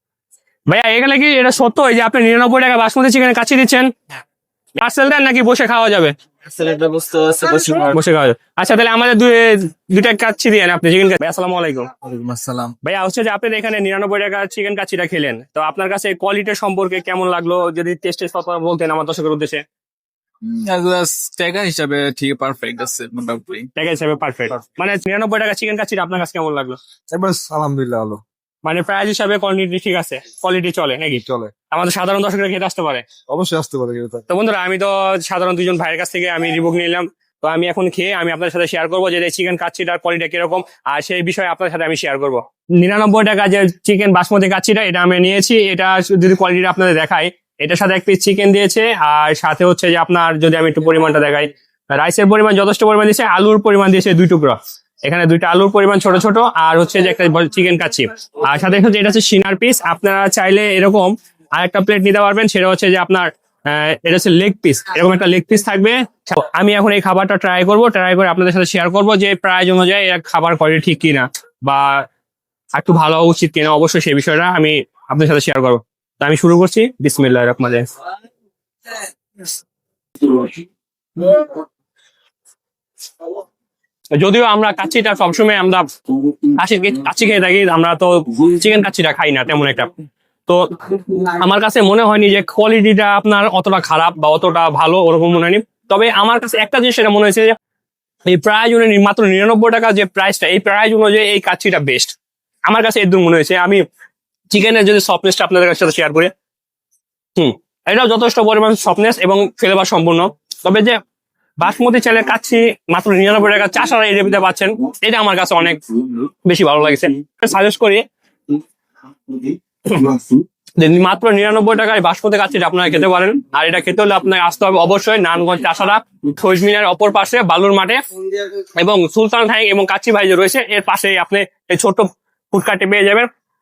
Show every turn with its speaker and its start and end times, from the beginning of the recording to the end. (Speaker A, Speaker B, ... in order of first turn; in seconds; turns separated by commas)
Speaker A: 0.7-3.9, Speaker A: 4.8-6.1, Speaker B: 6.5-8.0, Speaker A: 7.9-11.9, Speaker B: 12.1-12.8, Speaker A: 12.8-19.6, Speaker B: 20.4-23.7, Speaker A: 23.8-26.8, Speaker C: 27.1-28.2, Speaker A: 28.6-33.0, Speaker C: 31.3-31.5, Speaker C: 33.3-34.3, Speaker A: 34.3-72.0, Speaker A: 72.8-77.9, Speaker A: 80.3-80.5, Speaker A: 81.2-81.5, Speaker A: 84.2-85.8, Speaker A: 86.4-89.9, Speaker A: 90.5-97.5, Speaker A: 98.3-102.1, Speaker A: 102.7-103.8, Speaker A: 104.5-106.3, Speaker A: 107.4-111.0, Speaker A: 111.6-118.0, Speaker A: 119.3-128.0, Speaker A: 128.8-133.3